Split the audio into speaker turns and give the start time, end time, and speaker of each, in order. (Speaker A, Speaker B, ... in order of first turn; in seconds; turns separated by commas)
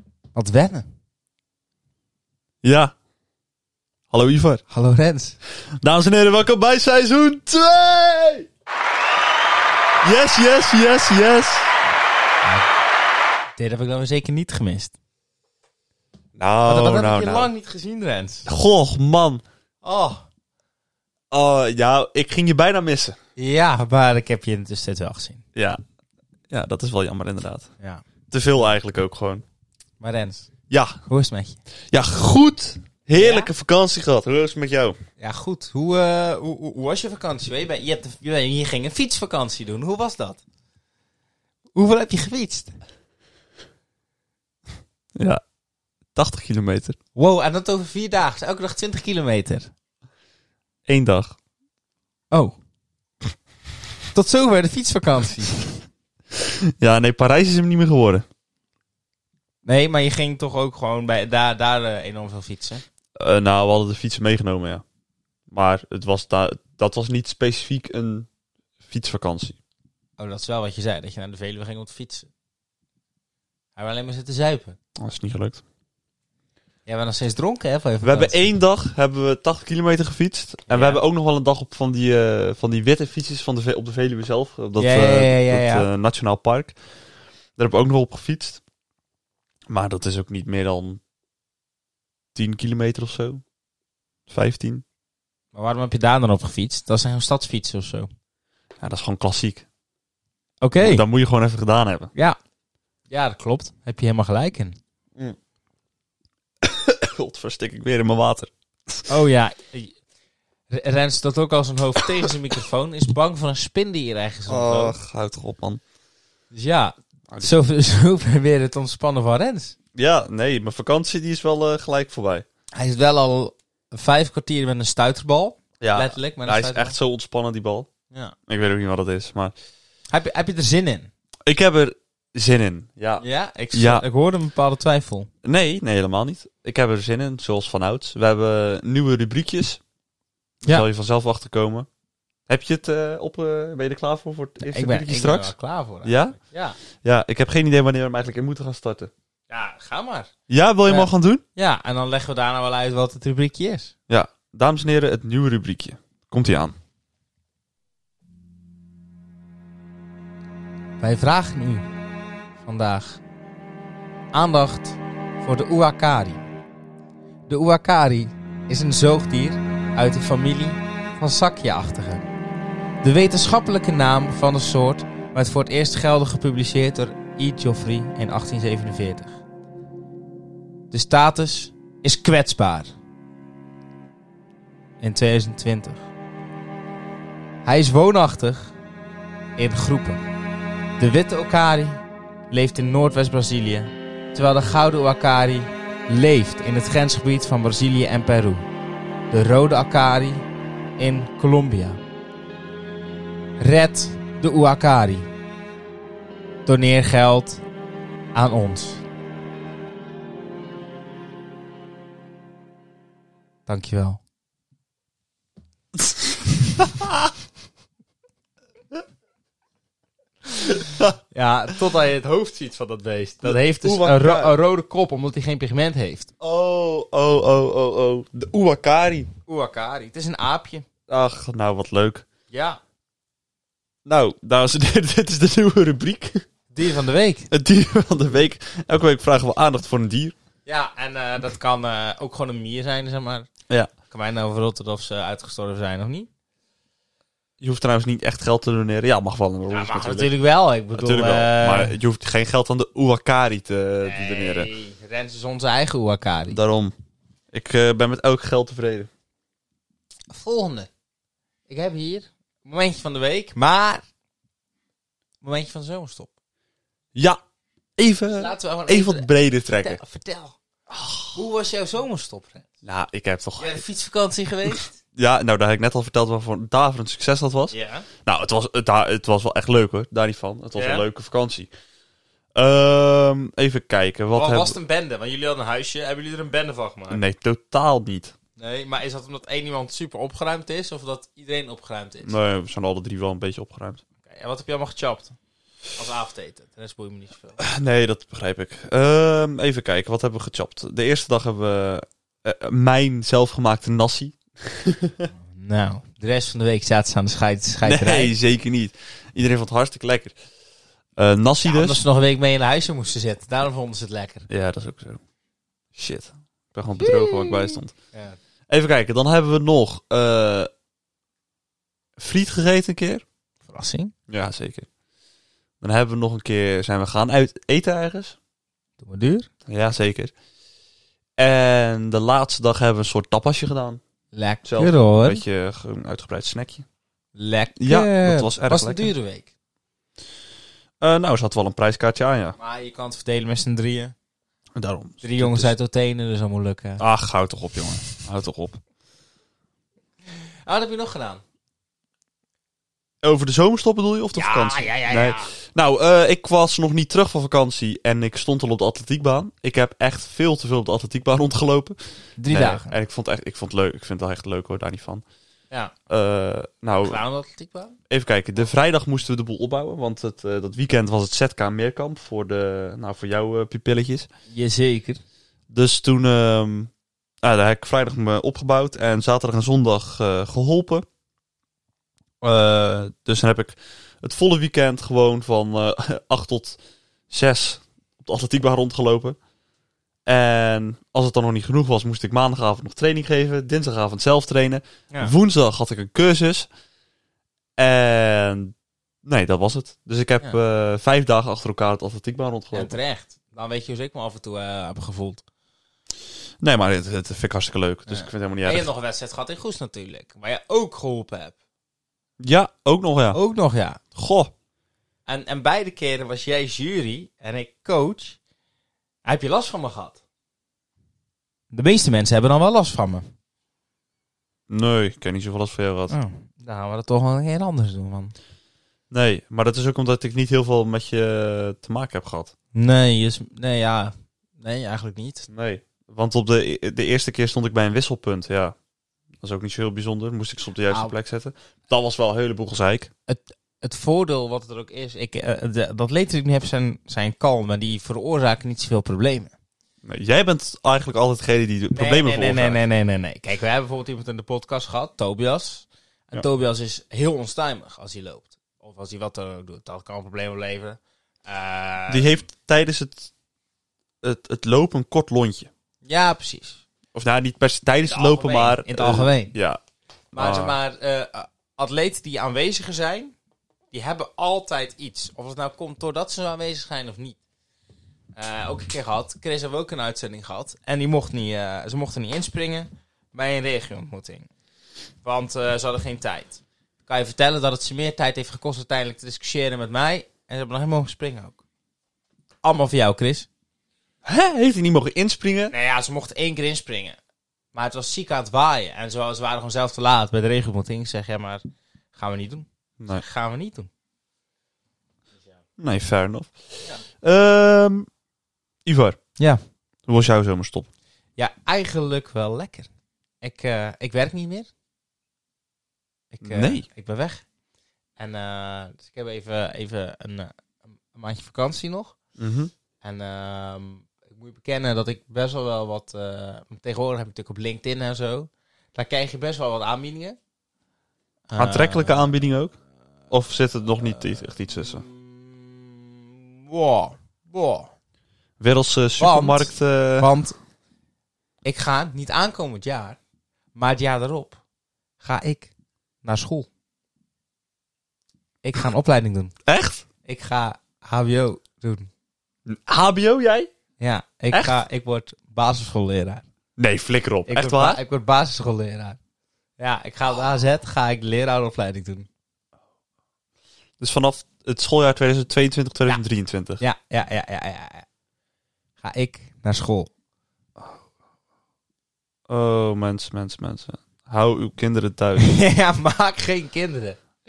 Speaker A: 0.3-0.9, Speaker B: 2.6-2.9, Speaker B: 4.1-4.6, Speaker A: 4.7-5.4, Speaker B: 5.8-8.5, Speaker B: 10.0-11.7, Speaker A: 12.4-12.7, Speaker A: 13.6-14.9, Speaker B: 16.4-17.5, Speaker A: 16.6-18.5, Speaker B: 18.4-19.4, Speaker A: 19.8-20.2, Speaker B: 21.3-23.1, Speaker A: 23.4-25.4, Speaker B: 25.5-25.8, Speaker B: 26.5-27.7, Speaker B: 28.3-29.4, Speaker A: 30.0-30.5, Speaker B: 30.7-31.0, Speaker A: 31.1-31.6, Speaker B: 31.9-35.0, Speaker A: 33.2-33.5, Speaker A: 35.2-40.4, Speaker A: 41.7-42.8, Speaker B: 45.1-45.4, Speaker B: 46.1-47.0, Speaker A: 47.1-49.7, Speaker B: 50.9-51.4, Speaker A: 52.3-52.6, Speaker A: 54.1-55.6, Speaker B: 56.4-58.2, Speaker A: 59.6-62.8, Speaker B: 63.2-64.8, Speaker B: 65.5-68.3, Speaker B: 68.8-69.5, Speaker A: 70.2-72.3, Speaker A: 73.8-74.8, Speaker B: 75.0-75.6, Speaker A: 76.8-78.5, Speaker B: 78.0-86.8, Speaker A: 80.7-81.0, Speaker A: 84.8-85.9, Speaker B: 87.6-88.6, Speaker B: 89.7-91.0, Speaker B: 92.3-93.4, Speaker B: 94.3-94.8, Speaker A: 95.5-98.1, Speaker B: 98.8-99.7, Speaker A: 100.6-101.0, Speaker B: 100.8-102.1, Speaker A: 103.1-104.8, Speaker B: 106.6-109.1, Speaker A: 109.1-110.0, Speaker A: 110.7-115.0, Speaker B: 114.5-115.8, Speaker A: 116.5-119.8, Speaker B: 119.9-122.5, Speaker A: 122.7-127.0, Speaker B: 125.8-127.9, Speaker B: 128.5-129.5, Speaker A: 130.1-131.1, Speaker B: 131.4-134.0, Speaker A: 133.2-135.3, Speaker B: 135.4-139.8, Speaker B: 140.6-141.9, Speaker B: 142.5-145.5, Speaker A: 144.6-146.8, Speaker B: 146.0-146.4, Speaker B: 147.0-149.1, Speaker A: 149.5-150.3, Speaker B: 150.5-151.4, Speaker A: 150.9-153.9, Speaker B: 154.1-156.8, Speaker A: 161.0-161.9, Speaker A: 162.6-163.2, Speaker A: 164.3-166.4, Speaker A: 167.5-172.2, Speaker A: 173.0-179.4, Speaker A: 180.9-182.9, Speaker A: 185.0-186.1, Speaker A: 187.6-188.7, Speaker A: 189.6-190.2, Speaker A: 191.0-198.6, Speaker A: 199.3-200.4, Speaker A: 201.0-202.0, Speaker A: 203.6-205.3, Speaker A: 206.7-207.6, Speaker A: 208.3-209.0, Speaker A: 213.7-214.2, Speaker B: 216.0-217.1, Speaker B: 220.6-221.1, Speaker A: 221.3-226.3, Speaker B: 223.4-224.5, Speaker B: 226.4-229.3, Speaker A: 229.5-230.8, Speaker B: 231.1-232.3, Speaker A: 232.5-232.8, Speaker B: 234.0-236.4, Speaker A: 236.7-237.5, Speaker B: 237.5-240.3, Speaker A: 240.7-243.5, Speaker A: 244.1-246.3, Speaker B: 247.6-250.3, Speaker A: 249.7-251.9, Speaker B: 250.9-254.7, Speaker A: 254.0-256.6, Speaker B: 256.5-256.9, Speaker B: 257.5-259.1, Speaker A: 260.3-260.9, Speaker A: 261.7-264.0, Speaker A: 265.4-266.3, Speaker B: 268.0-270.0, Speaker A: 268.3-270.5, Speaker B: 270.9-271.3, Speaker A: 271.3-272.7, Speaker B: 272.8-273.8, Speaker A: 273.6-274.9, Speaker B: 275.1-281.7, Speaker A: 277.7-278.1, Speaker A: 280.7-281.0, Speaker B: 282.5-284.8, Speaker A: 284.3-287.2, Speaker B: 287.1-288.3, Speaker A: 288.6-292.4, Speaker B: 292.2-294.0, Speaker A: 294.2-295.3, Speaker A: 295.9-297.6, Speaker B: 297.6-305.3, Speaker A: 305.4-308.3, Speaker B: 307.8-310.4, Speaker B: 311.1-312.0, Speaker A: 311.6-314.5, Speaker B: 314.5-315.2, Speaker B: 315.9-317.9, Speaker A: 317.0-318.4, Speaker B: 318.7-320.7, Speaker B: 322.2-323.2, Speaker A: 323.7-324.1, Speaker B: 324.3-324.9, Speaker B: 325.8-328.4, Speaker A: 329.0-329.5, Speaker B: 329.6-330.3, Speaker B: 331.4-334.0, Speaker A: 334.3-335.4, Speaker B: 334.6-336.9, Speaker A: 337.4-339.5, Speaker B: 337.8-339.1, Speaker B: 341.0-342.6, Speaker A: 342.6-344.1, Speaker B: 344.8-345.7, Speaker A: 345.2-347.0, Speaker B: 347.0-348.8, Speaker A: 350.6-351.4, Speaker B: 353.2-362.0, Speaker A: 354.3-355.5, Speaker A: 362.4-362.9, Speaker B: 362.5-365.2, Speaker B: 366.1-367.2, Speaker A: 367.0-368.0, Speaker B: 368.1-374.3, Speaker A: 374.5-375.2, Speaker B: 375.7-376.9, Speaker B: 377.4-381.1, Speaker B: 382.4-386.8, Speaker B: 387.3-389.4, Speaker B: 390.2-396.7, Speaker B: 397.8-398.7, Speaker B: 399.2-402.9, Speaker A: 402.7-405.4, Speaker B: 406.6-408.9, Speaker A: 408.1-411.6, Speaker B: 412.4-413.4, Speaker A: 413.3-414.0, Speaker B: 414.1-414.5, Speaker A: 415.3-418.4, Speaker A: 419.2-420.2, Speaker A: 421.7-423.3, Speaker B: 424.7-426.1, Speaker A: 426.1-428.3, Speaker B: 429.1-432.5, Speaker A: 432.7-435.5, Speaker B: 435.5-438.7, Speaker B: 439.4-443.1, Speaker A: 443.3-449.5, Speaker B: 450.0-452.8, Speaker A: 451.9-462.3, Speaker B: 462.1-463.3, Speaker B: 464.2-465.7, Speaker A: 466.0-466.8, Speaker B: 467.1-469.8, Speaker A: 468.0-469.6, Speaker A: 470.3-473.3, Speaker B: 470.3-470.8, Speaker A: 473.9-477.4, Speaker A: 478.4-484.5, Speaker A: 485.2-491.6, Speaker A: 492.6-493.5, Speaker B: 494.2-495.7, Speaker A: 495.7-497.2, Speaker A: 497.7-501.6, Speaker A: 502.1-503.9, Speaker B: 505.8-506.6, Speaker B: 507.1-508.1, Speaker B: 508.9-509.2, Speaker B: 510.1-510.9, Speaker A: 511.4-512.9, Speaker A: 513.4-514.7, Speaker A: 516.3-517.4, Speaker B: 516.4-516.8, Speaker A: 518.2-520.5, Speaker A: 521.1-522.1, Speaker B: 522.4-522.7, Speaker A: 523.0-530.4, Speaker A: 531.5-532.3, Speaker B: 531.6-532.8, Speaker B: 533.3-535.0, Speaker A: 534.2-537.9, Speaker B: 538.6-540.3, Speaker A: 539.2-540.5, Speaker A: 541.6-543.2, Speaker A: 543.7-544.6, Speaker A: 545.2-545.7, Speaker A: 546.2-546.7, Speaker A: 548.6-549.5, Speaker B: 549.6-550.0, Speaker A: 550.2-552.1, Speaker B: 552.6-553.7, Speaker A: 554.0-556.4, Speaker B: 556.8-558.0, Speaker A: 557.5-559.2, Speaker A: 559.8-562.3, Speaker B: 564.0-566.8, Speaker A: 566.8-568.0, Speaker A: 569.0-570.1, Speaker B: 572.5-575.5, Speaker A: 575.4-577.2